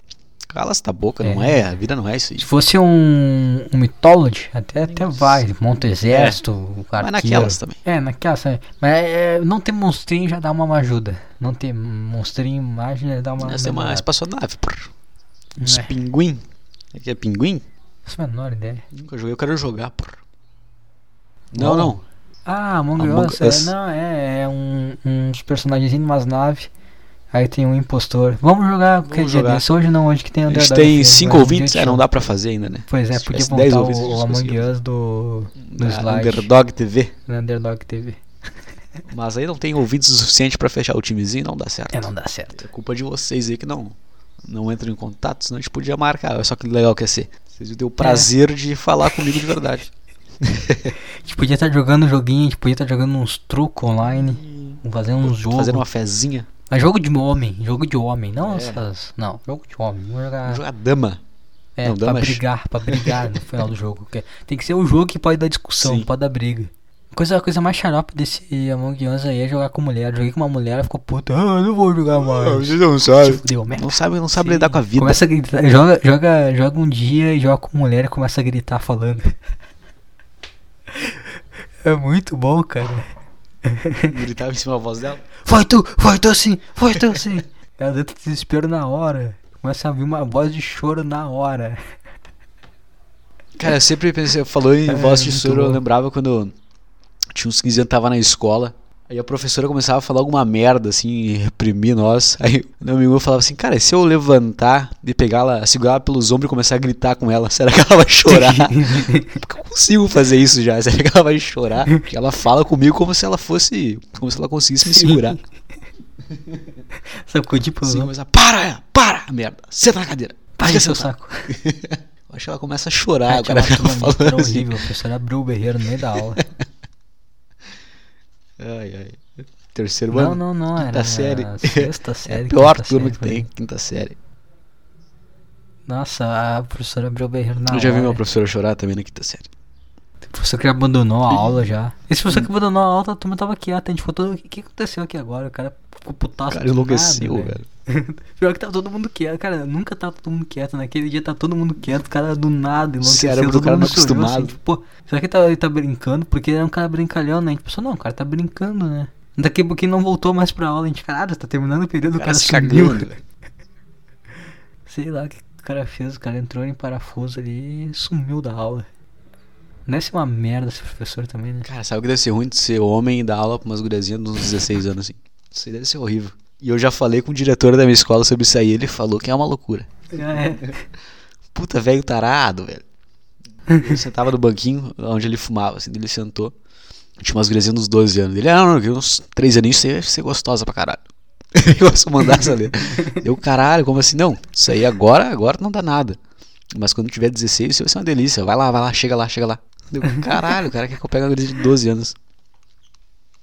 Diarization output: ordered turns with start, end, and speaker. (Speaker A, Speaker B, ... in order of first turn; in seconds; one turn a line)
Speaker A: 0.5-2.5
Speaker B: 1.2-1.6
Speaker B: 2.4-14.1
Speaker A: 4.8-5.4
Speaker A: 6.1-6.4
Speaker A: 7.0-7.8
Speaker A: 13.4-14.9
Speaker B: 15.6-16.0
Speaker A: 15.6-17.6
Speaker B: 18.1-18.9
Speaker A: 18.9-20.2
Speaker B: 21.5-26.7
Speaker A: 21.5-22.0
Speaker A: 23.0-23.7
Speaker B: 27.3-32.0
Speaker A: 29.1-29.6
Speaker A: 30.5-34.7
Speaker B: 32.9-36.5
Speaker A: 35.7-37.1
Speaker B: 37.3-38.2
Speaker A: 39.1-49.9
Speaker B: 41.9-42.6
Speaker B: 48.0-48.3
Speaker A: 50.4-51.0
Speaker B: 51.2-55.9
Speaker A: 54.1-56.5
Speaker B: 56.7-60.6
Speaker A: 58.4-58.8
Speaker A: 60.4-61.2
Speaker B: 61.8-79.3
Speaker A: 61.8-63.5
Speaker A: 65.8-66.1
Speaker A: 72.2-75.2
Speaker B: 80.9-81.2
Speaker B: 81.8-83.1
Speaker B: 83.7-84.2
Speaker A: 84.1-85.3
Speaker B: 85.4-91.8
Speaker A: 93.6-96.5
Speaker B: 94.9-95.8
Speaker A: 97.3-115.4
Speaker B: 108.3-109.4
Speaker B: 114.8-115.4
Speaker B: 117.2-118.1
Speaker A: 117.8-124.8
Speaker B: 120.6-121.5
Speaker B: 123.3-126.4
Speaker A: 128.6-134.2
Speaker B: 130.1-133.5
Speaker B: 135.9-138.2
Speaker A: 137.7-139.5
Speaker B: 140.3-163.2
Speaker A: 141.3-141.7
Speaker A: 146.5-147.7
Speaker A: 153.0-154.6
Speaker A: 162.2-163.1
Speaker B: 164.9-168.9
Speaker B: 169.9-171.7
Speaker A: 171.6-180.7
Speaker B: 180.1-180.8
Speaker A: 181.5-182.8
Speaker A: 183.7-186.5
Speaker A: 187.2-191.0
Speaker A: 191.5-196.2
Speaker B: 192.2-193.2
Speaker A: 196.7-202.2
Speaker B: 200.0-200.6